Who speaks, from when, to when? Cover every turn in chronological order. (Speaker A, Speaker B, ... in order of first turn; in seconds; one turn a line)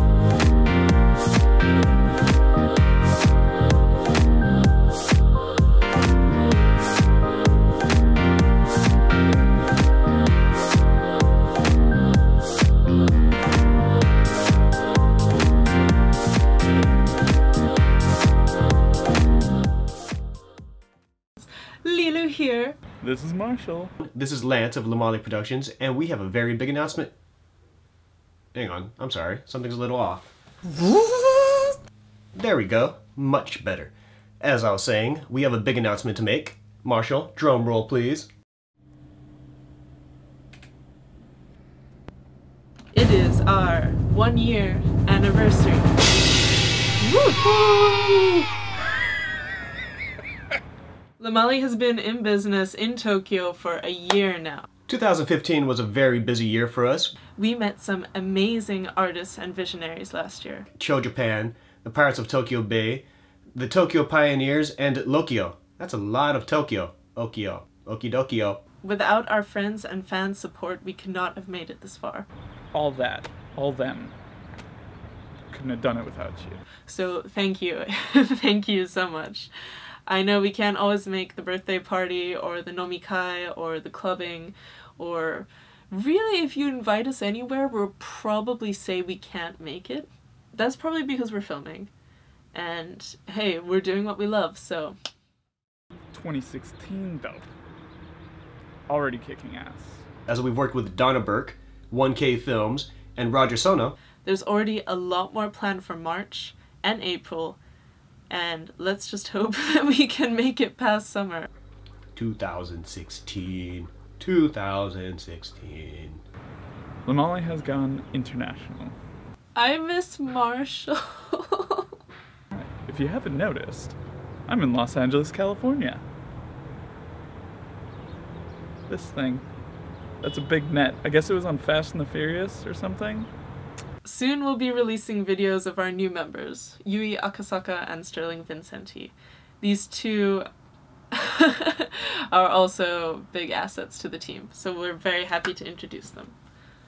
Speaker A: 21.4-22.8
Speaker B: 23.0-23.9
Speaker C: 24.0-27.1
Speaker C: 28.5-30.3
Speaker C: 32.3-38.3
Speaker A: 42.9-46.0
Speaker A: 47.0-48.5
Speaker A: 51.2-54.7
Speaker C: 54.9-57.1
Speaker A: 57.4-60.7
Speaker C: 60.7-68.6
Speaker A: 68.8-72.3
Speaker B: 72.7-74.1
Speaker B: 75.5-76.6
Speaker A: 76.8-79.5
Speaker A: 80.1-91.9
Speaker A: 92.5-95.0
Speaker B: 96.1-97.5
Speaker B: 98.9-100.0
Speaker C: 100.3-104.0
Speaker A: 104.2-107.6
Speaker A: 108.3-111.5
Speaker C: 112.1-116.2
Speaker B: 117.0-118.9
Speaker A: 119.6-121.9
Speaker B: 122.5-124.0
Speaker B: 124.5-126.0
Speaker B: 128.9-129.4
Speaker B: 130.2-133.3
Speaker A: 134.0-140.4
Speaker A: 141.1-146.3